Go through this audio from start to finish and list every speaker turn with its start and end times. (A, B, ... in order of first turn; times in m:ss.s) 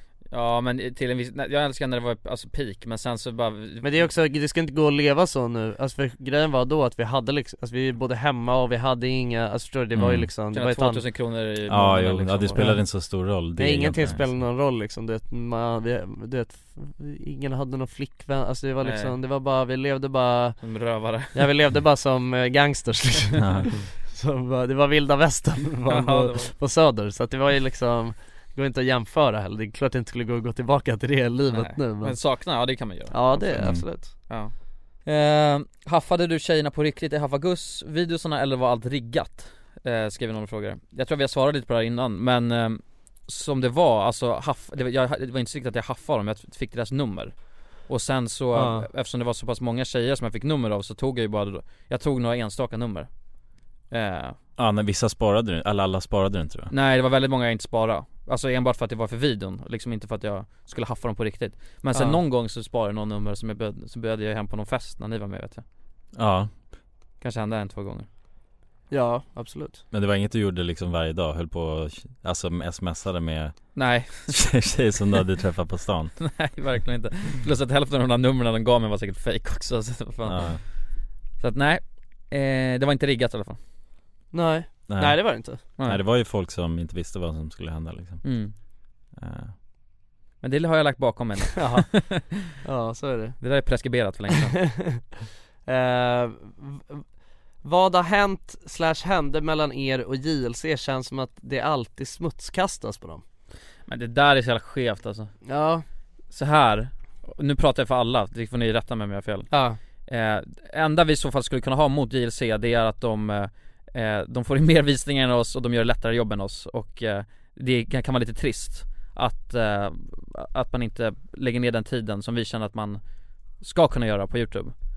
0:00.3-0:04.1 A
0:03.8-0:11.0 B
0:10.0-0:10.3 C
0:10.5-0:12.8 A
0:11.7-0:14.3 C
0:13.5-0:20.6 B
0:18.8-0:19.2 A
0:20.6-0:21.4 A
0:21.3-0:32.2 B
0:23.4-0:23.7 C
0:25.9-0:26.5 A
0:31.5-0:53.1 A
0:33.1-0:34.2 B
0:33.6-0:33.8 C
0:48.5-0:48.9 B
0:53.9-0:54.4 A
0:54.6-0:56.7 C
0:56.7-1:05.6 A
1:01.9-1:02.2 B
1:06.1-1:06.5 C
1:07.2-1:08.1 A
1:08.9-1:09.8 B
1:09.9-1:16.2 C
1:13.7-1:14.5 A
1:16.2-1:20.8 A
1:20.2-1:20.6 C
1:21.4-1:23.6 A
1:24.3-1:25.7 B
1:24.9-1:28.4 C
1:28.2-1:28.5 A
1:29.1-1:29.5 C
1:30.4-1:32.5 A
1:31.6-1:31.9 B
1:32.6-1:33.4 B
1:33.4-1:34.6 A
1:34.3-1:35.0 B
1:35.6-1:37.0 B
1:37.6-1:43.2 B
1:43.9-1:45.4 A
1:45.4-1:45.8 B
1:46.3-1:49.5 A
1:49.5-1:49.8 B
1:50.1-2:03.0 A
2:03.6-2:04.7 A